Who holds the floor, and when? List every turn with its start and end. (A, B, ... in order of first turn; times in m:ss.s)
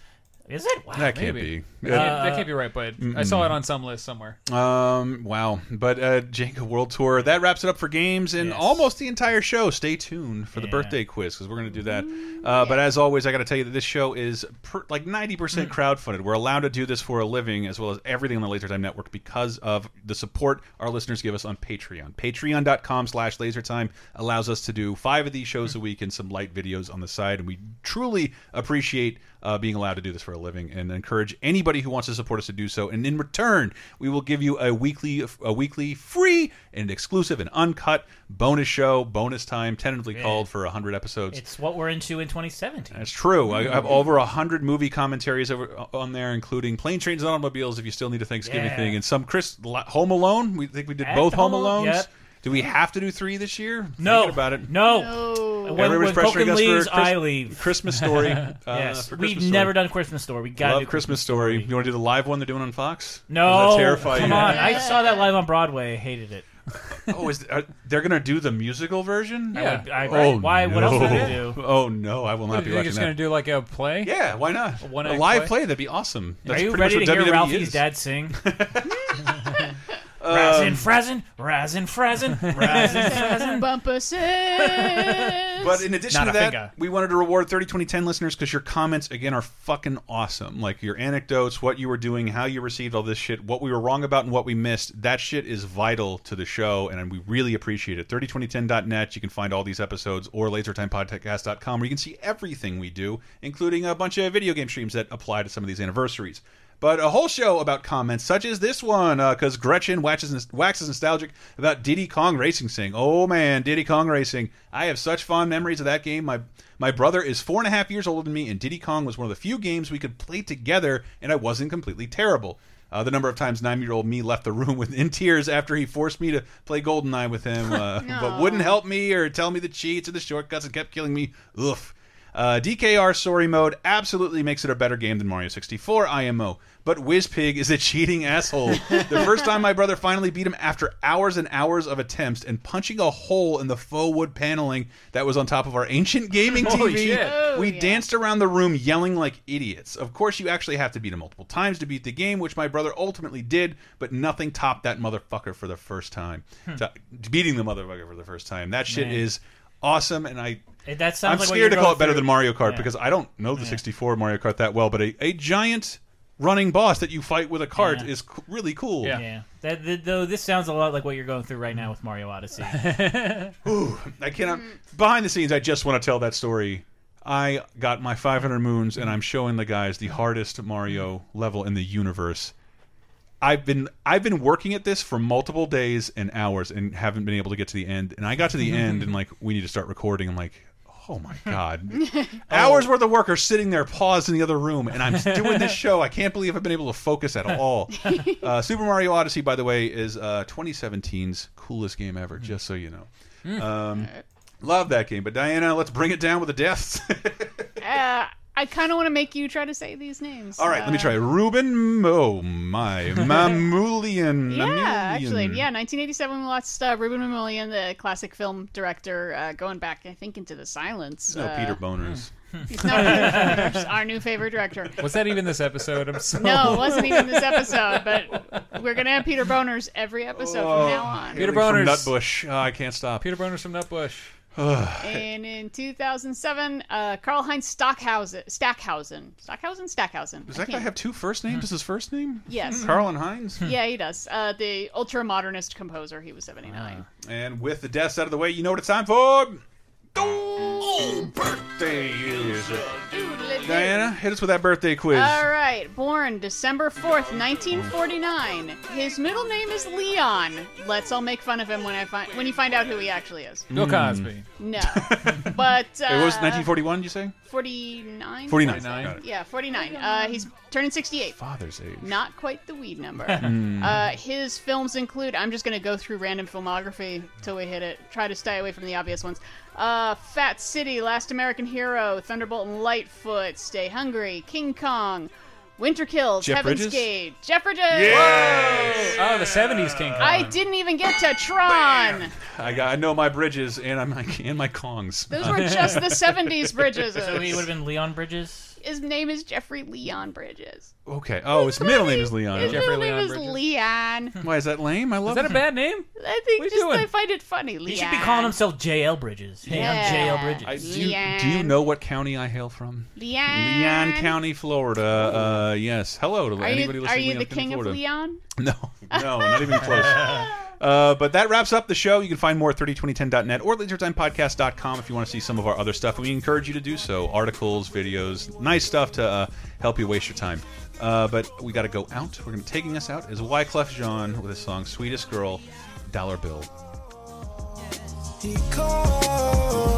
0:00.5-0:01.3 A
0:00.9-0:02.2 B
0:01.1-0:04.4 C
0:01.8-0:02.5 A
0:03.0-0:03.6 B
0:04.5-0:41.4 B
0:08.4-0:08.8 A
0:10.6-0:11.0 A
0:12.0-0:12.8 D
0:40.2-0:40.5 A
0:41.3-0:43.1 A
0:42.9-0:54.7 B
0:48.4-0:49.0 A
0:51.0-0:52.1 A
0:54.0-0:57.7 A
0:54.8-0:56.1 D
0:55.7-0:59.8 B
0:58.7-1:01.7 A
1:00.6-1:04.8 B
1:03.3-1:06.5 A
1:04.6-1:05.3 D
1:07.1-1:13.2 B
1:09.5-1:09.9 C
1:09.5-1:11.6 A
1:10.8-1:11.4 C
1:12.5-1:15.5 C
1:14.0-1:19.2 B
1:16.5-1:18.4 A
1:20.2-1:20.9 B
1:20.3-1:23.6 A
1:22.5-1:23.4 C
1:22.5-1:23.0 B
1:22.8-1:25.7 D
1:25.6-2:40.6 B
1:26.1-1:26.7 C
2:08.0-2:08.8 D
2:26.5-2:27.5 C
2:26.6-2:28.0 D
2:38.9-2:39.3 A
2:40.9-2:42.9 A
2:41.2-2:49.2 B
2:43.6-2:43.8 A
2:47.8-2:48.1 A
2:49.1-2:53.0 A
2:52.7-2:53.5 C
2:53.6-3:02.5 B
3:03.4-3:24.1 B
3:12.0-3:12.4 D
3:15.3-3:15.7 C
3:18.0-3:18.4 D
3:24.6-3:27.8 B
3:27.8-3:31.2 D
3:30.6-3:35.6 B
3:34.5-3:41.8 D
3:41.3-3:42.3 B
3:42.7-3:45.0 D
3:42.8-3:43.8 C
3:45.0-3:48.0 C
3:46.4-3:51.4 D
3:50.4-3:53.3 B
3:51.4-3:52.1 C
3:53.2-3:54.3 C
3:54.6-3:55.3 B
3:55.0-4:00.9 D
4:00.5-4:03.6 B
4:02.5-4:03.0 D
4:03.6-4:07.0 D
4:06.7-4:07.0 A
4:07.2-4:09.6 B
4:10.2-4:13.0 B
4:13.1-4:14.0 D
4:13.6-4:15.5 B
4:15.1-4:23.7 D
4:23.7-4:27.4 B
4:23.7-4:24.5 C
4:24.6-4:26.7 D
4:27.4-4:31.4 D
4:28.5-4:29.2 B
4:28.6-4:29.2 C
4:31.4-4:32.2 B
4:32.0-4:49.1 D
4:33.4-4:34.1 B
4:46.4-4:47.1 B
4:47.9-4:50.5 B
4:48.1-4:50.5 C
4:50.2-4:52.3 D
4:51.7-4:57.7 B
4:55.3-4:57.7 D
4:57.2-4:58.8 A
4:58.8-5:00.9 D
5:01.1-5:02.9 B
5:01.5-5:04.4 D
5:02.6-5:03.6 C
5:04.4-5:05.6 B
5:05.3-5:07.1 C
5:06.2-5:08.6 D
5:07.9-5:11.1 A
5:09.7-5:18.0 B
5:09.7-5:10.4 C
5:09.7-5:11.8 D
5:13.2-5:14.4 D
5:16.6-5:18.4 D
5:18.6-5:36.7 B
5:19.1-5:20.1 D